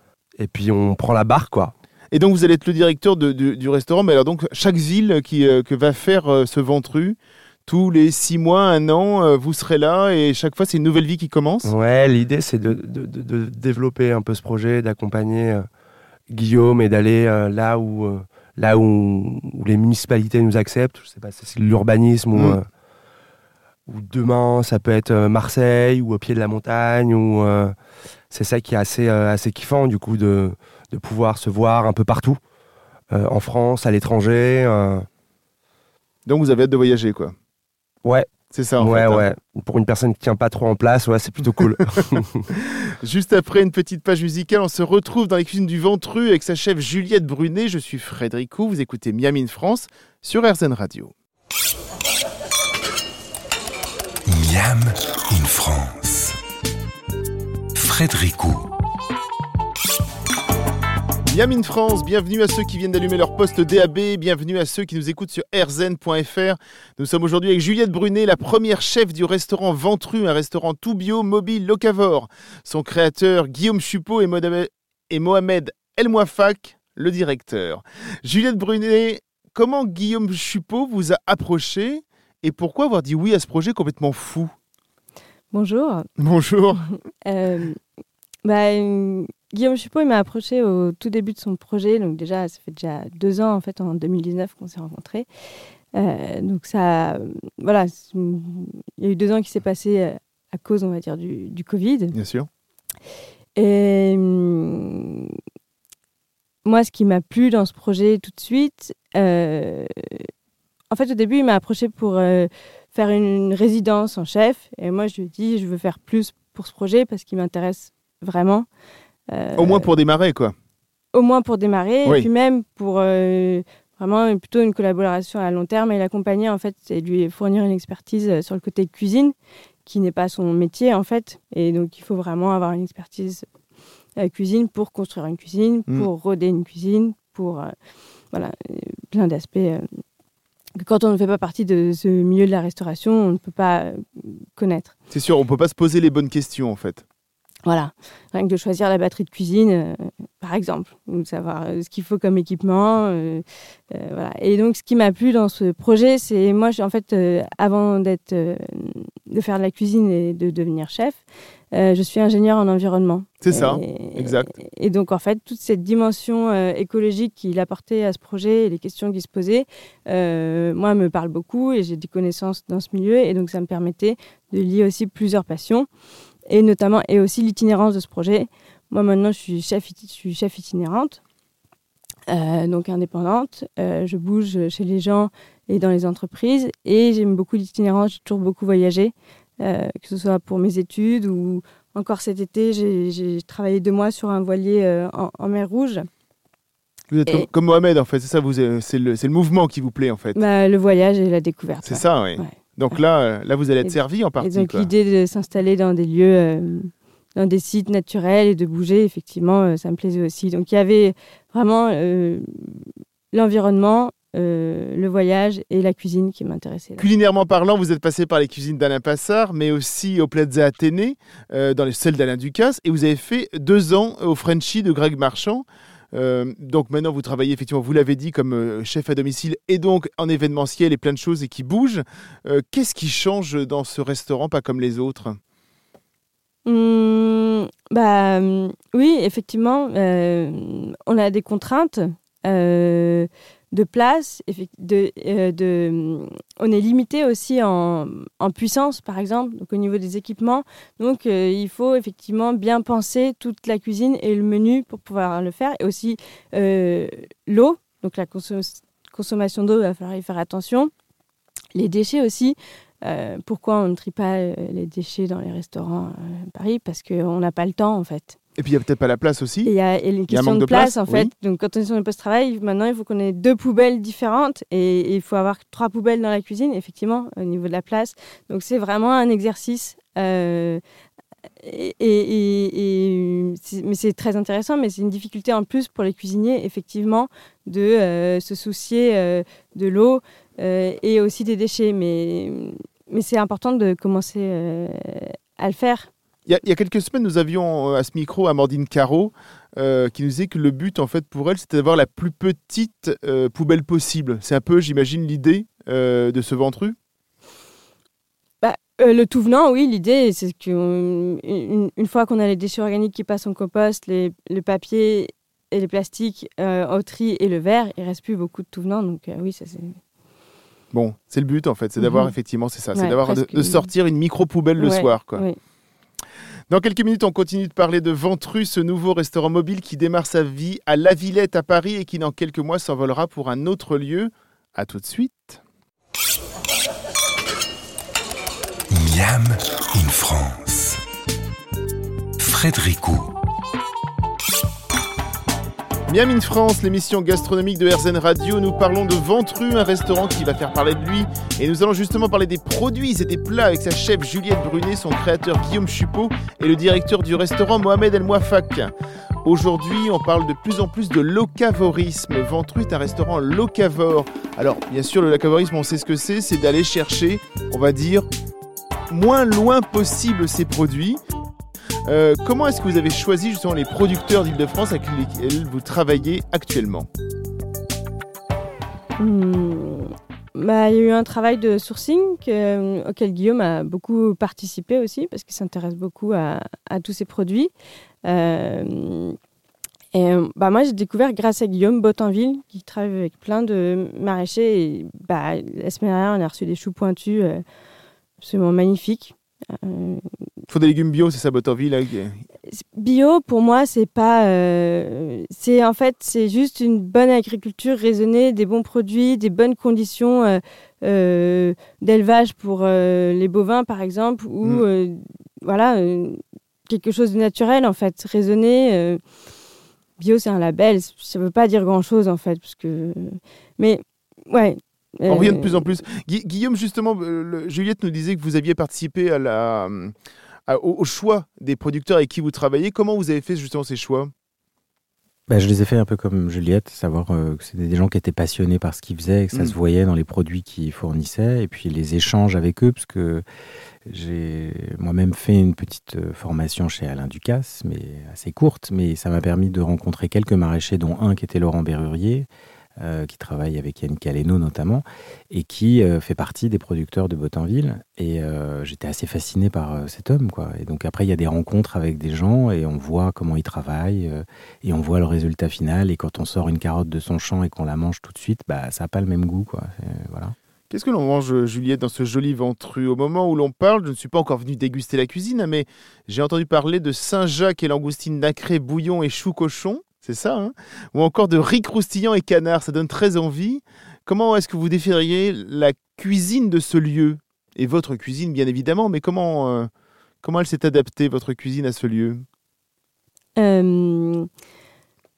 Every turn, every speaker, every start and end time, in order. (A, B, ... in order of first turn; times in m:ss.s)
0:00.4-0:01.7 A
0:02.1-0:11.7 B
0:11.6-0:15.7 A
0:16.3-0:22.6 A
0:23.9-0:27.7 A
0:28.3-0:32.4 A
0:33.1-0:35.1 A
0:36.2-0:37.3 B
0:38.0-0:42.5 A
0:38.5-0:39.2 B
0:43.0-0:51.1 B
0:54.2-0:56.4 C
0:57.7-0:58.7 C
1:01.2-1:24.5 B
1:25.5-1:26.1 D
1:26.2-1:26.8 B
1:27.2-1:27.8 D
1:28.4-1:35.3 D
1:35.9-1:42.1 D
1:42.1-1:42.5 B
1:43.6-1:45.4 D
1:46.6-1:50.3 D
1:50.9-1:58.6 D
1:59.3-1:59.9 D
1:59.6-2:00.5 B
2:01.1-2:09.3 D
2:09.8-2:13.4 D
2:14.2-2:17.7 D
2:18.3-2:19.9 D
2:20.8-2:24.9 D
2:25.1-2:27.0 B
2:27.6-2:41.2 D
2:41.7-2:55.9 D
2:43.4-2:44.5 B
2:56.5-3:01.2 D
3:02.3-3:16.1 D
3:17.1-3:20.4 B
3:20.3-3:23.0 D
3:21.8-3:24.9 B
3:23.8-3:37.1 D
3:37.0-3:55.4 B
3:56.6-4:20.9 D
4:21.7-4:28.4 D
4:28.6-4:29.7 B
4:29.6-4:40.8 D
4:30.3-4:31.3 B
4:41.6-4:56.1 D
4:56.5-5:07.0 B
5:08.6-5:20.0 D
5:20.9-5:25.4 B
5:22.0-5:22.3 D
5:22.9-5:23.9 D
5:24.8-5:25.6 D
5:26.7-5:35.6 B
5:38.9-5:41.0 C
5:42.4-5:43.3 C
5:46.1-5:58.9 B
5:59.4-6:08.3 B
6:09.1-6:11.2 B
6:12.1-6:17.1 B
6:19.2-6:27.7 D
6:28.2-6:29.4 D
6:30.1-6:37.6 D
6:38.4-6:40.3 D
6:40.7-6:42.4 B
6:42.7-6:59.2 D
7:00.2-7:06.0 D
7:05.3-7:10.1 B
7:10.7-7:14.3 B
7:15.5-7:23.4 E
7:24.0-7:50.6 E
7:50.9-8:09.9 B
8:10.4-8:12.4 B
8:13.6-8:14.5 D